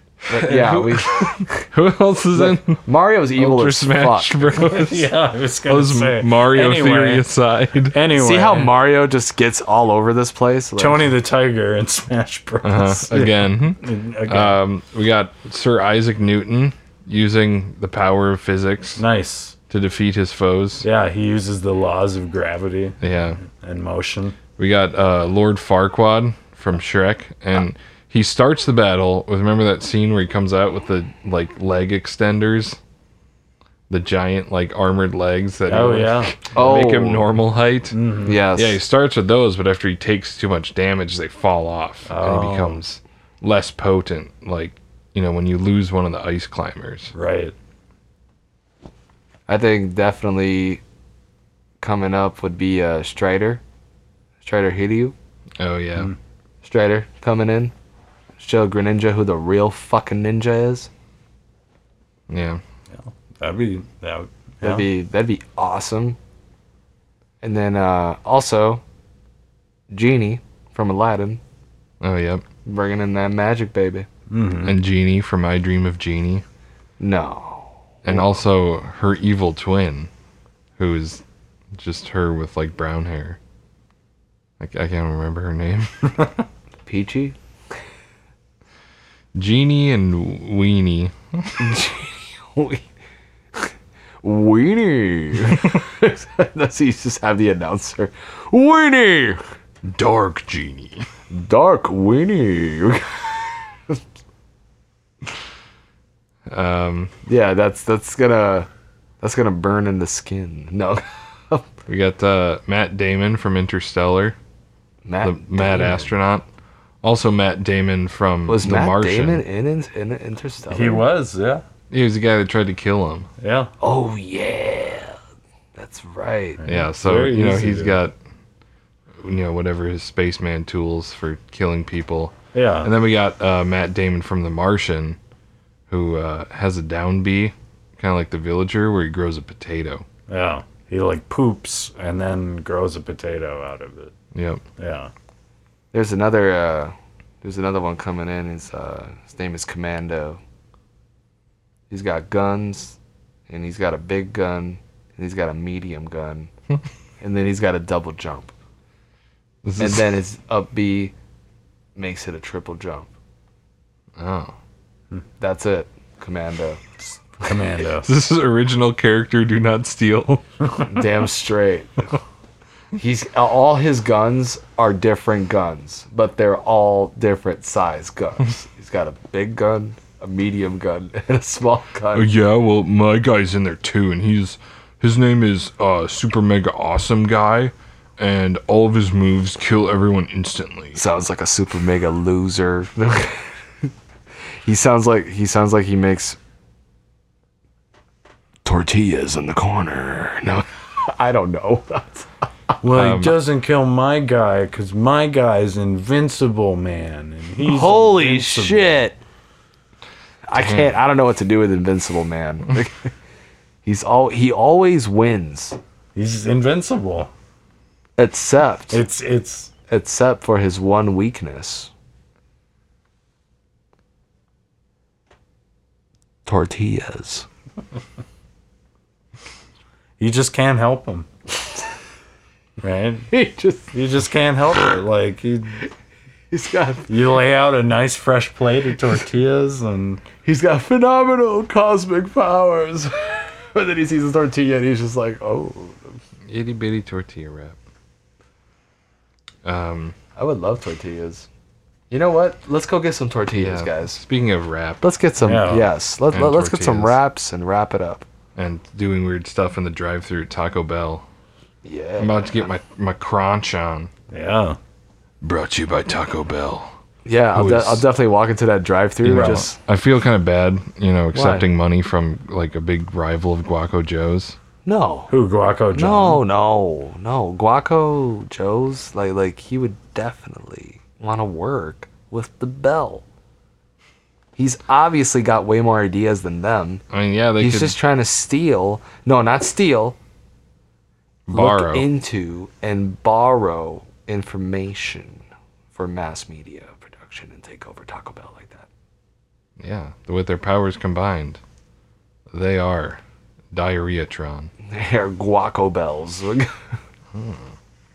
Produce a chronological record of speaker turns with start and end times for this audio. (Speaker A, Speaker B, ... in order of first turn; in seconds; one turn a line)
Speaker A: 0.3-1.7
Speaker B: 0.3-2.8
Speaker A: 2.4-4.4
Speaker B: 3.4-5.1
Speaker C: 4.5-7.3
Speaker B: 5.7-8.0
Speaker C: 7.9-8.7
Speaker A: 8.2-11.1
Speaker C: 10.8-14.6
Speaker B: 12.6-19.0
Speaker C: 19.0-19.6
Speaker B: 19.7-20.9
Speaker C: 20.8-24.4
Speaker B: 23.0-23.4
Speaker B: 24.6-32.8
Speaker B: 33.9-38.0
Speaker C: 35.6-36.3
Speaker A: 36.5-37.3
Speaker C: 37.9-38.4
Speaker A: 38.2-38.8
Speaker B: 38.5-47.1
Speaker C: 42.1-42.8
Speaker C: 47.1-47.5
Speaker A: 49.5-50.8
Speaker A: 51.8-53.6
Speaker A: 54.4-55.1
Speaker B: 55.6-56.1
Speaker A: 56.6-57.7
Speaker A: 58.4-60.9
Speaker B: 62.3-62.6
Speaker C: 62.9-64.9
Speaker A: 64.6-66.2
Speaker A: 67.4-68.8
Speaker A: 69.9-71.4
Speaker B: 72.0-72.4
Speaker A: 72.6-74.1
Speaker C: 74.3-74.7
Speaker B: 74.6-76.4
Speaker A: 77.0-78.2
Speaker B: 78.0-80.1
Speaker B: 80.8-81.2
Speaker B: 81.7-83.4
Speaker B: 84.6-86.3
Speaker A: 86.8-87.3
Speaker B: 89.3-91.7
Speaker A: 91.6-92.8
Speaker A: 94.2-99.4
Speaker B: 99.9-101.0
Speaker A: 101.3-104.0
Speaker B: 106.5-107.1
Speaker A: 107.2-108.7
Speaker A: 109.2-111.7
Speaker B: 111.9-114.3
Speaker A: 115.0-116.1
Speaker B: 115.2-116.4
Speaker B: 117.0-119.4
Speaker A: 118.5-121.0
Speaker C: 120.7-121.6
Speaker B: 121.9-123.3
Speaker C: 123.4-123.7
Speaker A: 123.8-125.2
Speaker A: 125.8-126.6
Speaker C: 126.6-128.0
Speaker B: 126.7-128.1
Speaker B: 129.2-135.2
Speaker C: 132.5-132.9
Speaker B: 135.9-140.1
Speaker C: 140.3-144.1
Speaker B: 144.3-144.6
Speaker C: 144.8-145.1
Speaker A: 145.9-150.4
Speaker A: 151.9-153.0
Speaker A: 153.5-156.5
Speaker A: 157.2-158.5
Speaker B: 159.6-160.1
Speaker A: 159.8-161.1
Speaker A: 161.9-163.1
Speaker B: 164.2-164.5
Speaker A: 165.4-166.8
Speaker C: 167.0-168.1
Speaker B: 168.0-170.4
Speaker A: 170.8-172.1
Speaker A: 172.9-182.3
Speaker B: 182.1-191.0
Speaker A: 190.9-193.9
Speaker A: 194.6-196.4
Speaker A: 198.6-202.3
Speaker C: 202.8-209.0
Speaker B: 202.9-203.4
Speaker A: 207.6-209.2
Speaker A: 210.5-213.1
Speaker B: 210.5-211.0
Speaker A: 213.8-215.8
Speaker C: 216.1-217.3
Speaker A: 218.2-219.0
Speaker C: 218.9-219.7
Speaker A: 219.9-221.9
Speaker A: 226.4-227.4
Speaker C: 230.2-231.3
Speaker C: 232.8-233.3
Speaker A: 233.3-233.9
Speaker C: 233.9-235.8
Speaker A: 236.5-237.1
Speaker C: 237.1-240.2
Speaker A: 240.4-246.2
Speaker B: 246.5-247.8
Speaker B: 249.6-250.2
Speaker A: 250.4-251.5
Speaker A: 252.1-254.2
Speaker B: 253.6-255.0
Speaker A: 255.0-258.2
Speaker C: 255.4-255.9
Speaker B: 256.3-257.2
Speaker B: 258.6-261.2
Speaker A: 261.8-262.6
Speaker B: 262.2-264.1
Speaker C: 264.3-264.8
Speaker B: 265.4-266.9
Speaker A: 267.2-269.8
Speaker B: 267.5-268.0
Speaker B: 269.2-274.6
Speaker C: 269.3-269.6
Speaker A: 271.3-271.7
Speaker A: 274.8-275.3
Speaker C: 275.3-276.4
Speaker A: 275.9-283.2
Speaker A: 284.6-287.0
Speaker B: 287.1-287.9
Speaker A: 287.6-290.2
Speaker B: 291.5-292.1
Speaker A: 291.5-298.9
Speaker B: 299.8-301.6
Speaker B: 302.5-303.2
Speaker B: 303.7-304.7
Speaker A: 304.8-306.7
Speaker B: 307.3-307.6